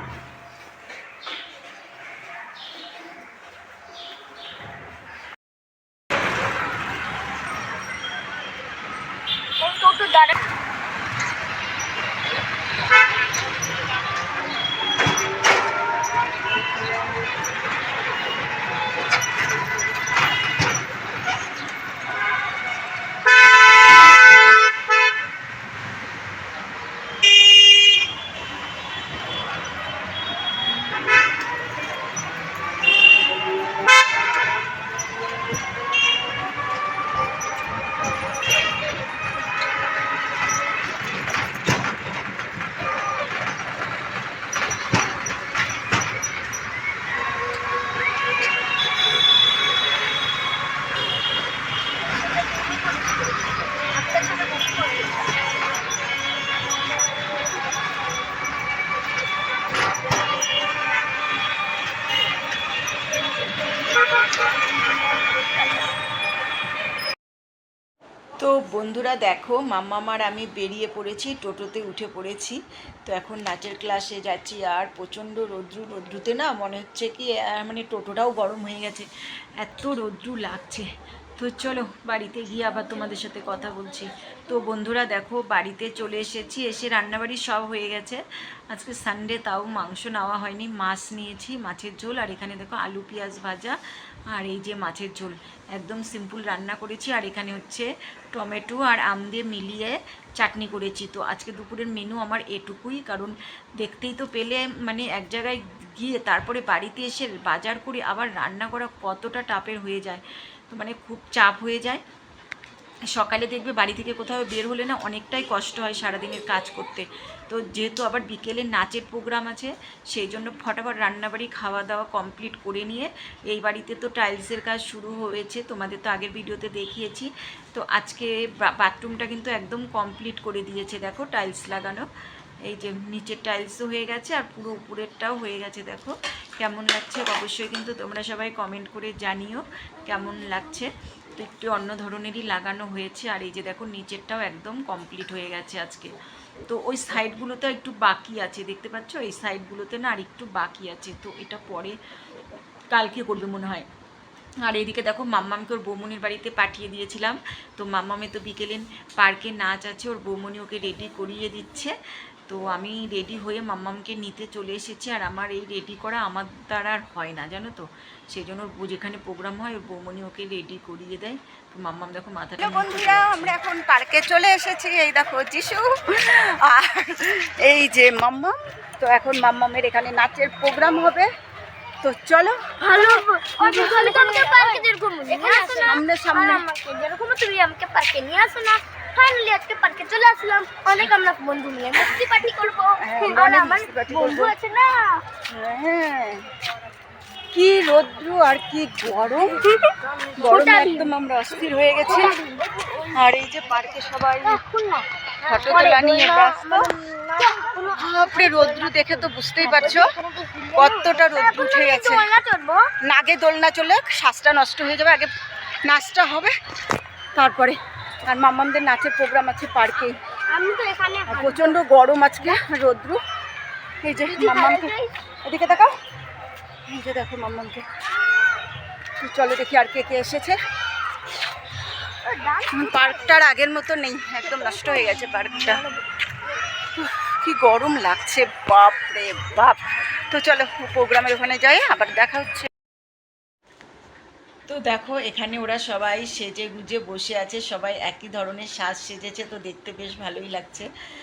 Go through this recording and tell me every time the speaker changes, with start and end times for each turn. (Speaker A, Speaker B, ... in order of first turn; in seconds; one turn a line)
Speaker A: 9.6-10.5
Speaker A: 52.1-55.5
Speaker B: 68.4-79.1
Speaker B: 79.6-80.9
Speaker B: 81.4-88.2
Speaker B: 88.7-93.8
Speaker B: 94.3-112.0
Speaker B: 113.1-132.1
Speaker B: 132.7-146.1
Speaker B: 146.7-152.0
Speaker B: 152.9-153.9
Speaker B: 154.6-161.9
Speaker B: 162.5-173.6
Speaker C: 172.6-181.3
Speaker C: 182.0-184.6
Speaker A: 182.8-195.2
Speaker C: 185.4-186.6
Speaker C: 193.0-194.5
Speaker C: 195.5-196.5
Speaker C: 197.5-199.7
Speaker A: 199.7-201.1
Speaker C: 200.4-202.4
Speaker A: 202.1-203.0
Speaker C: 203.1-204.6
Speaker A: 204.4-212.9
Speaker C: 205.5-206.9
Speaker C: 207.9-210.1
Speaker C: 210.8-212.2
Speaker C: 213.1-215.3
Speaker C: 215.8-216.5
Speaker C: 217.4-220.2
Speaker A: 220.5-221.8
Speaker C: 221.3-223.2
Speaker C: 224.0-224.9
Speaker A: 224.2-225.1
Speaker C: 225.4-225.9
Speaker C: 226.9-227.8
Speaker C: 229.2-230.6
Speaker A: 232.2-233.5
Speaker C: 232.7-235.8
Speaker A: 234.4-236.0
Speaker C: 237.0-239.8
Speaker C: 240.3-242.7
Speaker B: 244.7-250.9